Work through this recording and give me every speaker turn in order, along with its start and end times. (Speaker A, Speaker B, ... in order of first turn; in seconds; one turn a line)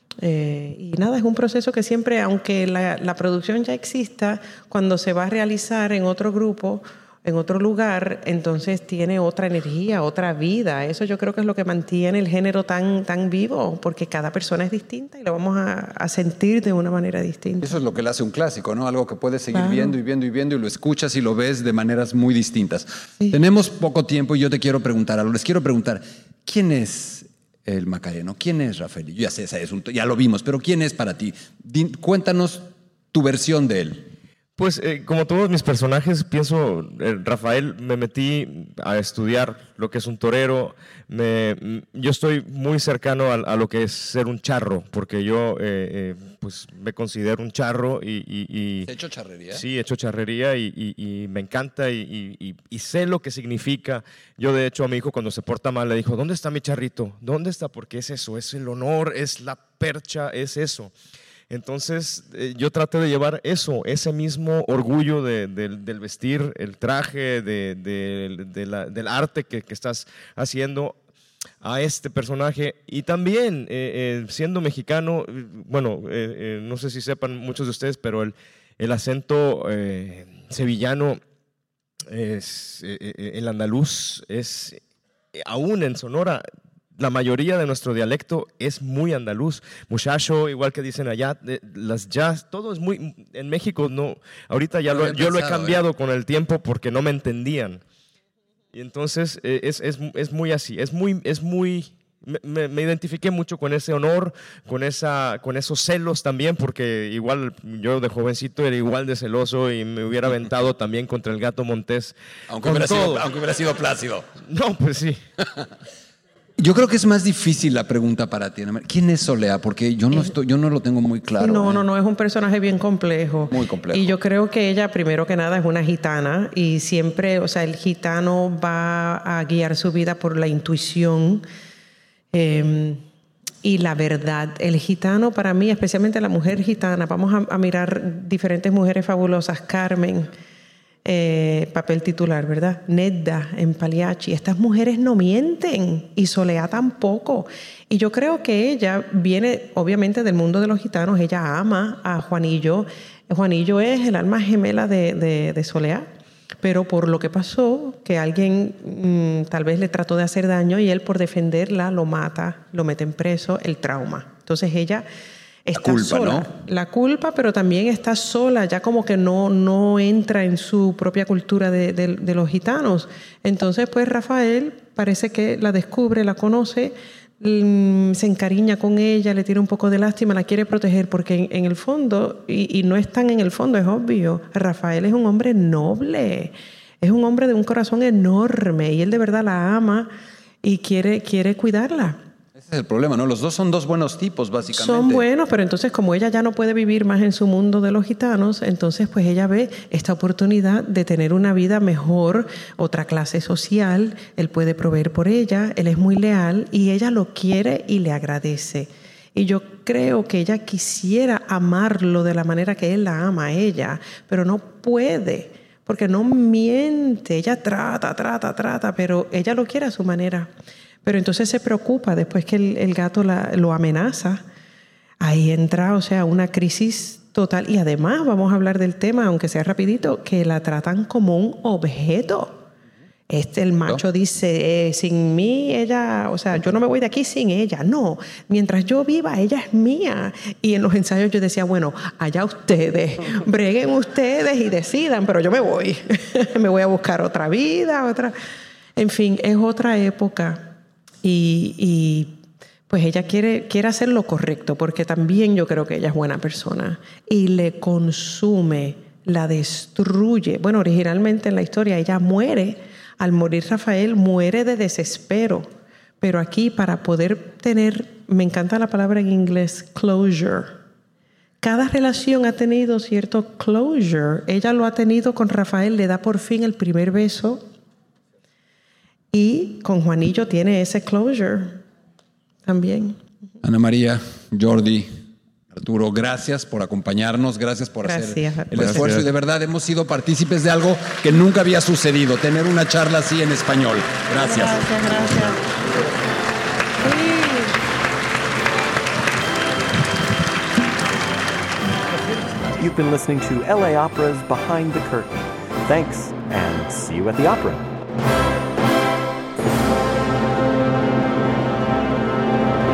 Speaker A: 0.2-17.7
Speaker B: 17.6-34.1
Speaker A: 19.5-19.9
Speaker C: 34.6-48.9
Speaker B: 48.9-49.6
Speaker C: 49.5-60.9
Speaker C: 61.5-71.0
Speaker C: 71.6-81.2
Speaker C: 82.1-84.8
Speaker C: 85.3-86.4
Speaker C: 87.0-97.8
Speaker B: 94.9-95.8
Speaker C: 98.7-113.2
Speaker B: 112.5-114.3
Speaker C: 114.5-115.2
Speaker B: 116.6-121.9
Speaker A: 121.4-131.4
Speaker B: 123.5-124.2
Speaker A: 132.3-133.0
Speaker A: 133.6-140.3
Speaker A: 141.1-156.1
Speaker A: 156.6-165.1
Speaker A: 165.7-190.1
Speaker B: 165.7-166.5
Speaker A: 190.6-192.2
Speaker B: 192.6-195.3
Speaker A: 194.7-220.5
Speaker A: 221.0-224.4
Speaker A: 225.2-232.7
Speaker A: 233.3-248.3
Speaker A: 249.0-252.3
Speaker A: 252.9-265.7
Speaker A: 266.2-270.7
Speaker A: 271.6-277.6
Speaker A: 279.3-281.8
Speaker A: 282.7-283.2
Speaker B: 283.6-285.1
Speaker B: 285.7-294.9
Speaker A: 288.0-289.1
Speaker C: 288.8-289.3
Speaker A: 294.4-295.6
Speaker A: 297.0-297.8
Speaker D: 302.7-307.9